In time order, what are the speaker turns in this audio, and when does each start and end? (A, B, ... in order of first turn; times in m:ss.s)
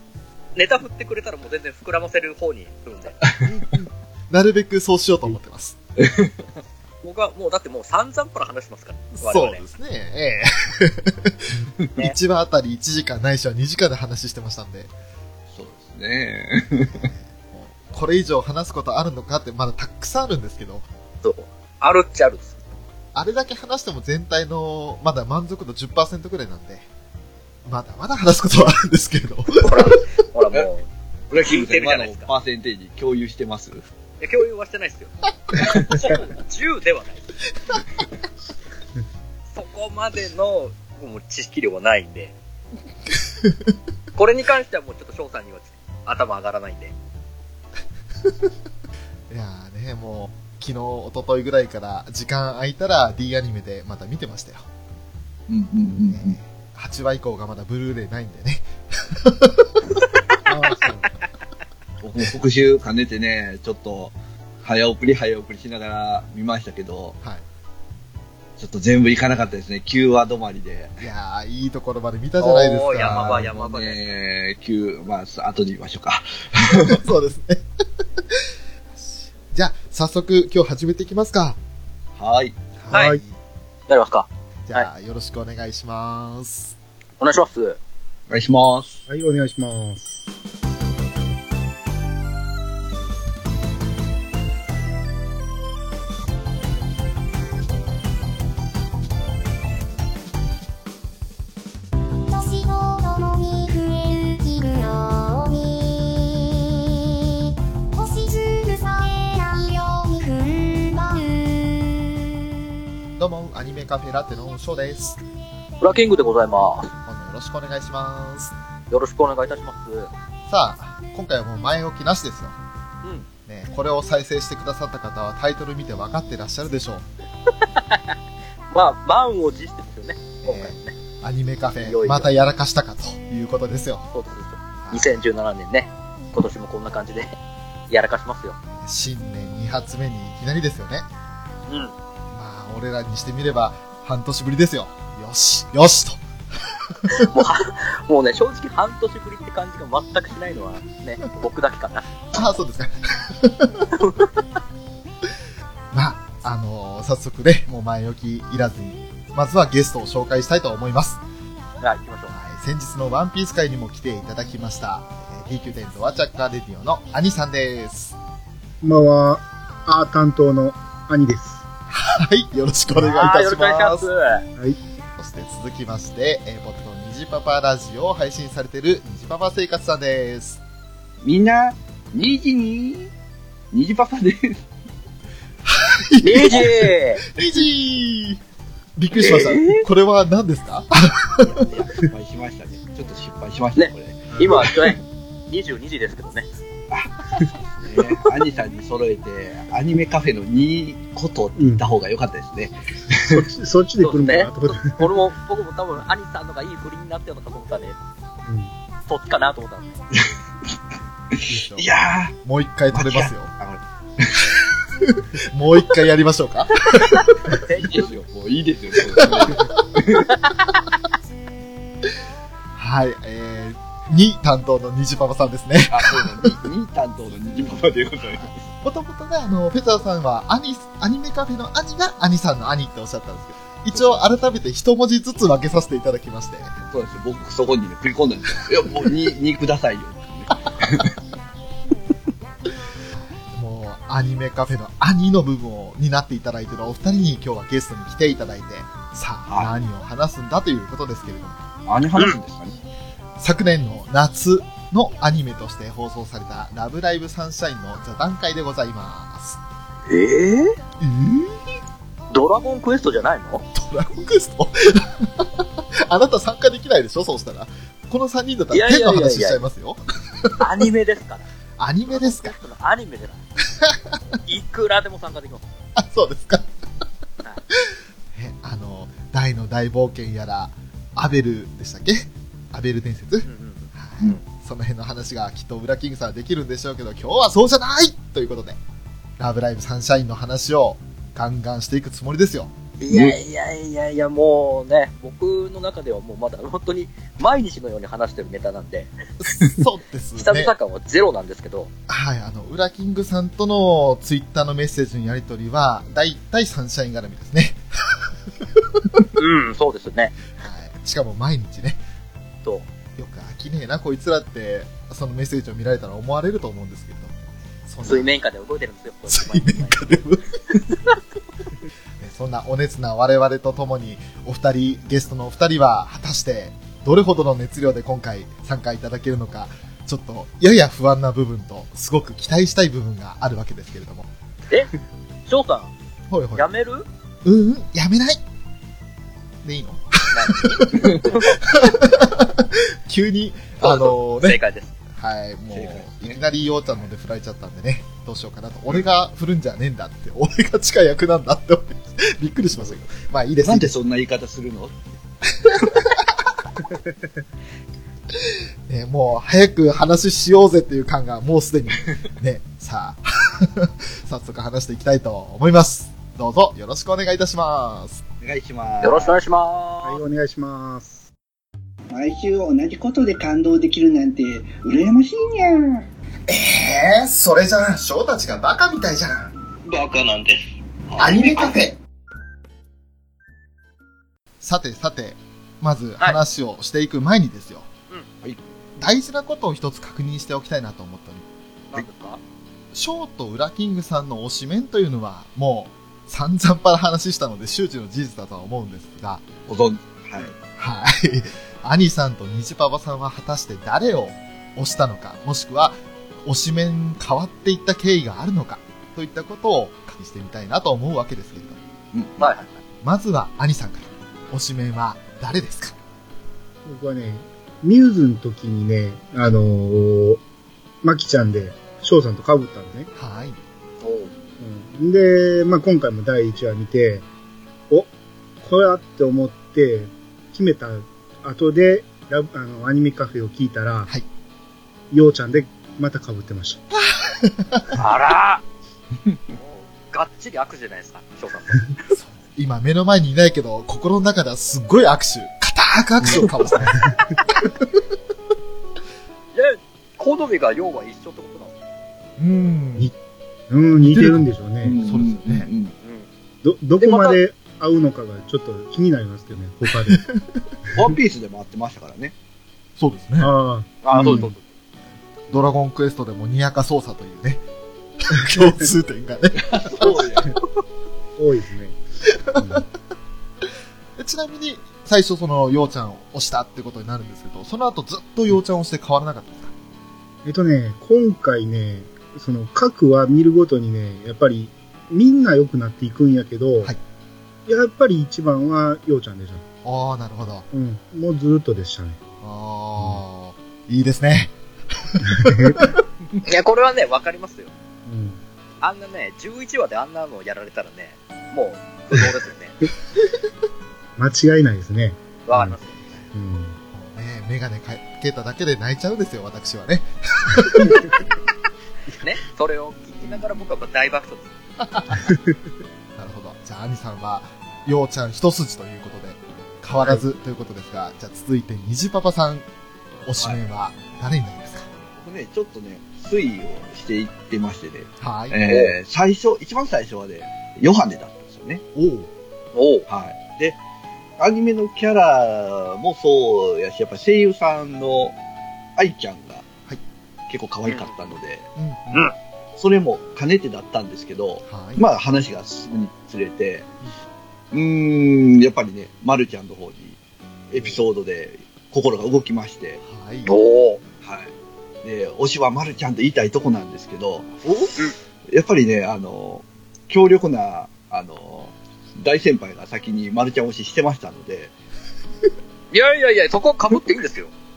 0:00.5-0:03.2 A
0:03.4-0:05.8 B
0:06.0-0:06.5 C
0:07.0-0:09.6 A
0:09.2-0:14.9 B
0:15.5-0:17.1 C
0:16.9-0:20.8 B
0:21.2-0:22.6 A
0:23.1-0:26.8 B
0:27.7-0:30.0 B
0:29.6-0:32.3 A
0:31.3-0:33.8 C
0:34.2-0:37.4 A
0:35.6-0:36.2 C
0:39.5-0:42.3 A
0:44.2-0:46.9 A
0:49.3-0:54.7 B
0:55.5-0:56.4 C
0:55.8-0:59.8 B
1:00.4-1:01.1 D
1:02.0-1:07.2 C
1:08.6-1:11.0 C
1:11.0-1:13.5 B
1:12.4-1:14.1 A
1:13.3-1:17.0 C
1:16.7-1:17.6 B
1:18.3-1:21.6 B
1:22.2-1:22.6 C
1:22.8-1:23.4 B
1:22.9-1:23.2 D
1:23.9-1:24.9 A
1:24.7-1:26.8 B
1:27.2-1:27.8 A
1:28.3-1:29.0 C
1:29.1-1:30.2 D
1:42.3-1:46.7 E
1:47.9-1:52.1 E
1:53.2-1:55.2 B
1:55.8-1:56.9 A
1:57.0-1:58.6 B
1:58.9-2:00.1 A
2:00.5-2:02.6 B
2:03.5-2:07.1 B
2:07.7-2:08.1 A
2:08.7-2:11.0 A
2:10.4-2:14.0 B
2:11.8-2:12.3 A
2:14.1-2:17.4 A
2:14.8-2:15.2 B
2:17.9-2:18.6 A
2:18.8-2:21.1 B
2:21.7-2:21.9 A
2:22.3-2:26.2 B
2:26.9-2:27.3 B
2:27.1-2:32.1 A
2:32.3-2:33.9 B
2:33.9-2:34.3 A
2:35.9-2:41.2 B
2:41.8-2:42.3 A
2:42.3-2:48.2 B
2:48.8-2:51.6 D
2:51.9-2:54.1 B
2:53.0-2:54.4 A
2:55.2-3:00.6 B
3:01.2-3:03.1 C
3:03.7-3:04.6 C
3:05.6-3:08.4 B
3:06.2-3:07.2 A
3:09.0-3:11.6 B
3:09.1-3:09.8 A
3:11.4-3:15.0 C
3:13.8-3:16.5 A
3:17.8-3:23.4 C
3:21.6-3:21.8 D
3:23.2-3:25.0 D
3:24.0-3:28.0 A
3:28.4-3:28.7 D
3:29.1-3:30.0 A
3:31.3-3:32.3 C
3:31.5-3:31.9 B
3:32.4-3:33.5 B
3:32.9-3:34.5 C
3:35.0-3:37.3 B
3:37.2-3:38.1 A
3:37.8-3:40.4 C
3:39.1-3:39.7 B
3:42.8-3:46.6 B
3:45.9-3:48.6 C
3:48.3-3:56.7 B
3:53.9-3:54.2 C
3:56.9-4:01.2 C
4:03.1-4:11.6 B
4:09.5-4:09.7 C
4:11.9-4:12.8 C
4:13.4-4:19.6 B
4:20.1-4:20.8 A
4:21.0-4:21.6 B
4:22.3-4:23.6 A
4:23.7-4:30.9 B
4:28.7-4:29.6 A
4:30.6-4:31.4 A
4:31.8-4:32.6 B
4:32.1-4:33.4 A
4:33.8-4:34.2 B
4:34.4-4:35.6 A
4:36.0-4:36.7 B
4:38.3-4:48.8 B
4:43.4-4:44.4 A
4:49.4-4:52.7 B
4:53.0-4:59.1 A
4:53.1-4:53.4 C
4:59.4-5:00.7 B
5:00.4-5:01.9 A
5:02.1-5:08.2 B
5:08.8-5:09.1 B
5:09.4-5:10.4 A
5:10.6-5:12.0 B
5:13.2-5:18.3 B
5:18.0-5:20.1 A
5:19.3-5:20.4 B
5:22.2-5:34.3 B
5:35.5-5:35.9 A
5:36.3-5:36.7 B
5:36.6-5:37.1 A
5:37.4-5:38.4 B
5:39.6-5:44.6 B
5:40.3-5:41.6 A
5:41.0-5:41.2 C
5:43.8-5:44.9 A
5:45.1-5:54.0 B
5:45.7-5:46.4 C
5:53.6-5:55.1 C
5:55.6-5:56.4 B
5:55.8-5:56.0 C
5:58.3-6:08.2 B
6:08.4-6:09.4 C
6:09.0-6:10.2 A
6:10.0-6:11.2 D
6:12.1-6:16.0 F
6:16.5-6:19.5 B
6:19.9-6:20.5 F
6:20.2-6:20.5 A
6:21.2-6:22.0 B
6:24.6-6:27.9 B
6:29.0-6:31.5 B
6:31.9-6:32.4 A
6:32.9-6:39.4 B
6:39.6-6:40.5 C
6:40.8-6:51.8 B
6:52.1-6:52.5 C
6:52.4-6:52.7 A
6:53.0-6:56.0 B
6:56.8-7:00.4 D
7:01.0-7:03.1 D
7:03.1-7:03.6 B
7:04.0-7:04.3 A
7:04.6-7:07.2 D
7:08.6-7:14.1 D
7:15.1-7:16.8 D
7:16.9-7:18.0 B
7:18.0-7:18.6 A
7:19.5-7:21.8 A
7:22.1-7:27.0 B
7:27.6-7:27.8 B
7:29.5-7:31.7 A
7:32.4-7:33.1 B
7:33.7-7:35.0 D
7:34.0-7:34.5 B
7:34.8-7:35.9 C
7:35.0-7:35.7 B
7:36.6-7:40.2 D
7:37.0-7:37.4 A
7:40.1-7:40.7 B
7:41.0-7:42.3 C
7:43.0-7:43.5 B
7:43.4-7:44.5 D
7:44.0-7:44.5 C
7:44.1-7:44.6 A
7:45.5-7:47.6 B
7:48.2-7:50.2 B
7:49.6-7:50.5 C
7:51.4-7:52.0 D
7:52.5-7:52.8 B
7:52.5-7:52.8 D
7:54.2-7:59.7 B
8:00.4-8:06.9 D
8:07.6-8:09.6 D
8:09.8-8:10.6 B
8:10.7-8:12.2 D
8:12.4-8:15.9 B
8:15.3-8:15.9 D
8:16.4-8:17.7 A
8:18.0-8:18.4 D
8:18.8-8:22.8 A
8:24.2-8:25.8 D
8:25.5-8:26.2 A
8:26.3-8:26.8 D
8:26.9-8:31.0 B
8:30.8-8:31.1 D
8:32.2-8:34.5 A
8:34.8-8:35.2 B
8:35.2-8:35.6 D
8:36.2-8:42.6 B
8:43.2-8:44.9 B
8:45.1-8:51.8 C
8:48.2-8:48.6 B
8:48.6-8:49.0 A
8:52.0-8:52.3 B
8:52.7-8:53.1 A
8:53.1-8:53.8 C
8:54.4-8:58.4 C
8:59.0-8:59.7 C
9:00.5-9:01.7 C
9:01.8-9:02.3 B
9:02.8-9:06.9 C
9:04.6-9:05.0 B
9:07.7-9:10.2 C
9:10.7-9:13.0 C
9:13.0-9:13.5 B
9:13.5-9:14.0 A
9:14.2-9:14.5 C
9:15.0-9:18.0 C
9:18.5-9:24.7 C
9:25.9-9:27.5 A